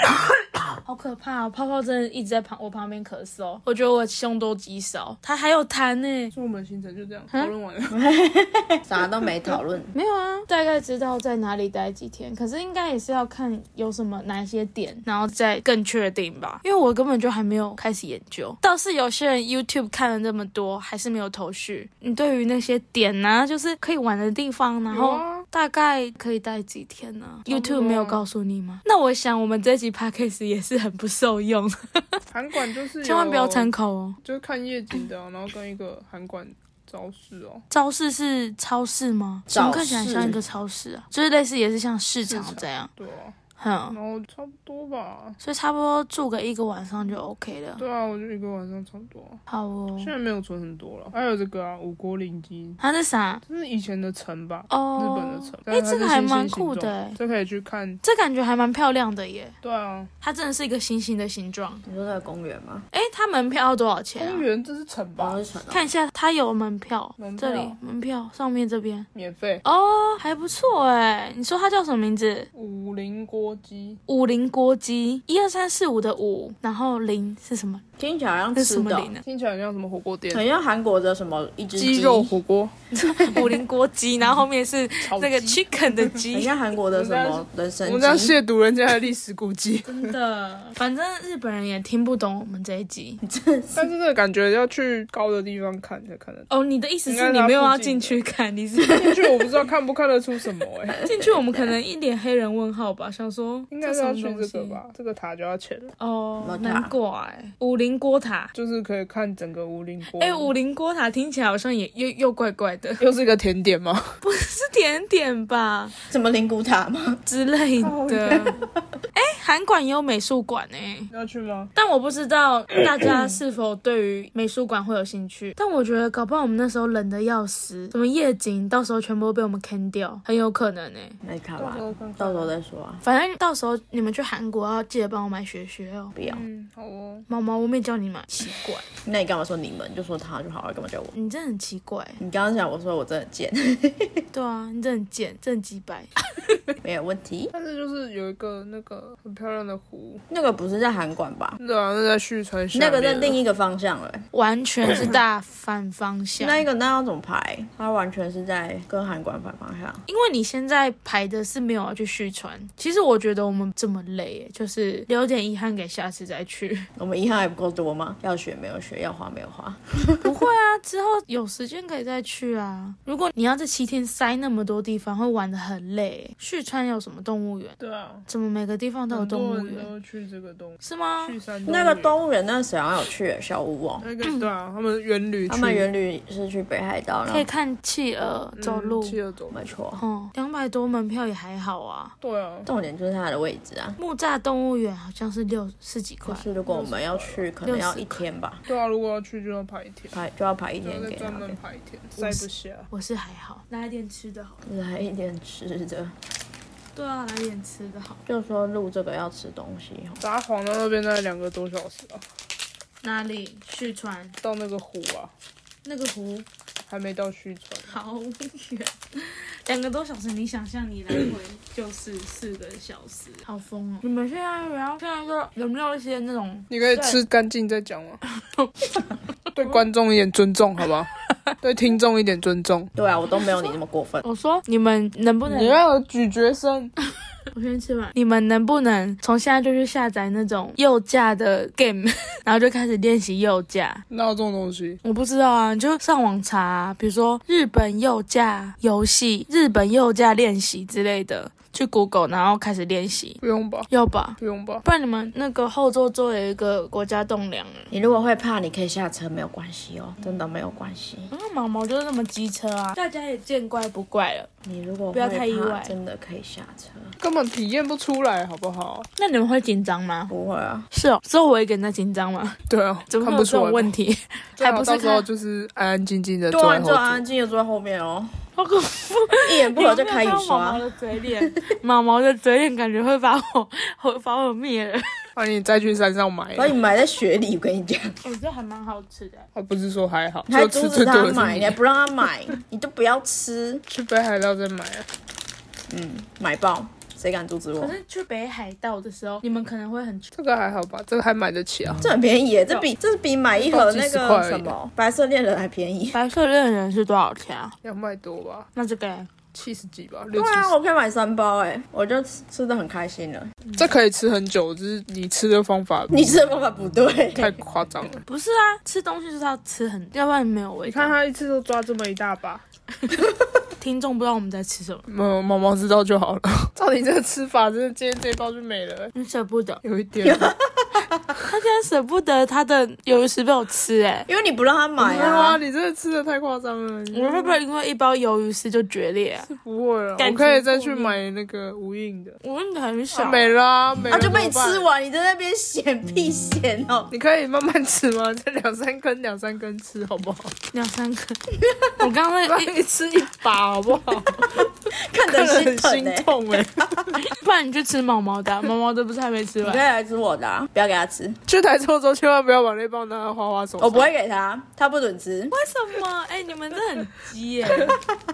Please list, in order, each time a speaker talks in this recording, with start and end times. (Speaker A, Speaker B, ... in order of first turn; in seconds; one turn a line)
Speaker A: 0.8-6.3
Speaker B: 6.3-8.0
Speaker C: 7.9-9.9
Speaker A: 9.9-32.2
Speaker B: 24.9-25.4
Speaker B: 27.5-28.2
Speaker B: 32.3-33.7
Speaker A: 33.0-34.2
Speaker B: 34.2-37.6
Speaker A: 37.7-42.9
Speaker C: 39.5-40.4
Speaker B: 42.2-43.3
Speaker A: 43.6-44.0
Speaker B: 43.9-45.4
Speaker A: 45.4-47.8
Speaker B: 47.8-49.4
Speaker A: 49.5-50.1
Speaker B: 50.0-52.8
Speaker A: 52.8-53.4
Speaker B: 53.5-58.0
Speaker A: 54.7-57.2
Speaker A: 58.0-59.5
Speaker B: 59.6-60.1
Speaker A: 60.2-61.8
Speaker C: 61.9-62.8
Speaker A: 62.9-64.5
Speaker B: 64.2-65.4
Speaker C: 65.2-65.9
Speaker A: 65.7-69.1
Speaker B: 67.2-67.8
Speaker B: 69.1-69.6
Speaker A: 69.6-72.5
Speaker B: 72.5-74.0
Speaker A: 74.1-77.8
Speaker C: 78.0-79.1
Speaker A: 78.5-79.2
Speaker B: 79.2-80.4
Speaker C: 80.3-82.3
Speaker B: 81.8-82.7
Speaker C: 83.0-83.5
Speaker A: 83.0-86.5
Speaker B: 85.0-86.2
Speaker C: 86.3-88.4
Speaker B: 86.9-90.1
Speaker A: 89.8-93.2
Speaker C: 93.2-93.9
Speaker B: 93.7-96.5
Speaker A: 96.5-99.5
Speaker B: 97.1-98.2
Speaker B: 98.9-101.0
Speaker C: 100.9-101.8
Speaker A: 101.0-104.8
Speaker B: 103.7-105.9
Speaker A: 106.0-108.5
Speaker C: 106.4-106.9
Speaker B: 108.5-110.5
Speaker A: 110.1-113.0
Speaker B: 113.0-114.2
Speaker A: 114.2-115.9
Speaker C: 116.1-117.2
Speaker A: 117.2-118.5
Speaker B: 117.8-118.5
Speaker A: 119.1-121.1
Speaker B: 121.1-121.7
Speaker A: 121.7-131.2
Speaker C: 131.2-133.0
Speaker B: 131.6-132.5
Speaker A: 133.0-136.2
Speaker C: 136.1-136.4
Speaker B: 136.2-137.2
Speaker A: 137.3-138.8
Speaker C: 139.0-141.1
Speaker A: 141.1-142.2
Speaker C: 142.2-144.2
Speaker A: 144.3-146.1
Speaker C: 146.8-147.5
Speaker B: 147.5-150.2
Speaker C: 150.3-151.6
Speaker B: 151.6-153.4
Speaker C: 152.7-154.2
Speaker A: 154.3-156.6
Speaker C: 156.4-160.0
Speaker A: 160.1-166.9
Speaker C: 167.0-170.3
Speaker A: 170.2-179.9
Speaker B: 177.8-178.3
Speaker B: 179.1-182.2
Speaker A: 180.8-181.3
Speaker C: 181.7-184.1
Speaker B: 184.0-185.8
Speaker A: 184.2-184.5
Speaker C: 185.5-187.5
Speaker A: 187.3-189.2
Speaker B: 188.6-189.7
Speaker C: 189.5-190.0
Speaker A: 190.0-192.1
Speaker B: 192.2-192.7
Speaker C: 192.7-194.0
Speaker A: 194.0-196.5
Speaker C: 196.2-198.6
Speaker B: 196.7-197.4
Speaker A: 197.6-198.2
Speaker B: 198.7-200.2
Speaker C: 200.1-201.6
Speaker B: 200.8-202.9
Speaker A: 202.2-204.6
Speaker C: 204.7-206.1
Speaker A: 206.9-208.2
Speaker C: 208.2-210.2
Speaker B: 210.2-212.2
Speaker A: 213.0-214.3
Speaker B: 214.4-215.3
Speaker A: 215.8-216.4
Speaker B: 216.9-217.9
Speaker A: 217.9-227.2
Speaker B: 226.7-228.2
Speaker A: 228.4-229.1
Speaker B: 229.5-231.1
Speaker B: 231.6-232.9
Speaker C: 232.9-234.2
Speaker A: 234.2-235.8
Speaker B: 235.5-236.9
Speaker A: 237.5-244.0
Speaker B: 244.1-245.0
Speaker A: 245.0-253.4
Speaker B: 253.4-254.8
Speaker A: 253.9-257.9
Speaker C: 257.9-261.3
Speaker A: 261.3-264.5
Speaker C: 264.6-267.1
Speaker A: 265.1-265.9
Speaker B: 267.2-269.1
Speaker A: 269.2-270.3
Speaker C: 270.3-270.9
Speaker A: 270.9-272.6
Speaker B: 272.7-273.9
Speaker A: 273.1-275.2
Speaker B: 274.6-277.2
Speaker C: 276.5-278.3
Speaker A: 278.6-285.0
Speaker C: 279.4-280.8
Speaker B: 285.4-286.8
Speaker C: 286.5-288.2
Speaker A: 288.2-289.5
Speaker B: 289.5-291.8
Speaker C: 290.5-293.8
Speaker B: 293.9-295.1
Speaker C: 295.9-297.9
Speaker A: 297.8-300.3
Speaker B: 300.3-302.1
Speaker C: 302.0-306.1
Speaker B: 303.6-304.7
Speaker A: 306.1-307.7
Speaker B: 307.8-308.7
Speaker A: 308.7-309.3
Speaker B: 309.5-310.7
Speaker C: 310.3-313.5
Speaker B: 313.8-316.1
Speaker C: 316.1-317.6
Speaker B: 317.3-318.2
Speaker A: 318.3-321.1
Speaker B: 320.9-322.6
Speaker A: 323.8-325.1
Speaker B: 325.1-329.1
Speaker A: 329.1-329.8
Speaker B: 329.8-330.5
Speaker C: 330.2-331.2
Speaker A: 331.4-334.3
Speaker C: 334.3-335.6
Speaker B: 335.0-337.6
Speaker A: 337.1-339.5
Speaker B: 339.5-342.4
Speaker A: 340.2-341.2
Speaker A: 342.4-343.5
Speaker B: 343.1-344.9
Speaker C: 344.0-347.1
Speaker B: 347.1-350.6
Speaker A: 350.7-351.4
Speaker C: 351.6-351.9
Speaker A: 352.0-354.6
Speaker B: 352.5-354.5
Speaker C: 354.8-356.6
Speaker B: 355.2-357.2
Speaker A: 357.2-359.8
Speaker C: 359.6-361.4
Speaker B: 361.5-364.1
Speaker C: 363.8-365.6
Speaker A: 365.5-368.0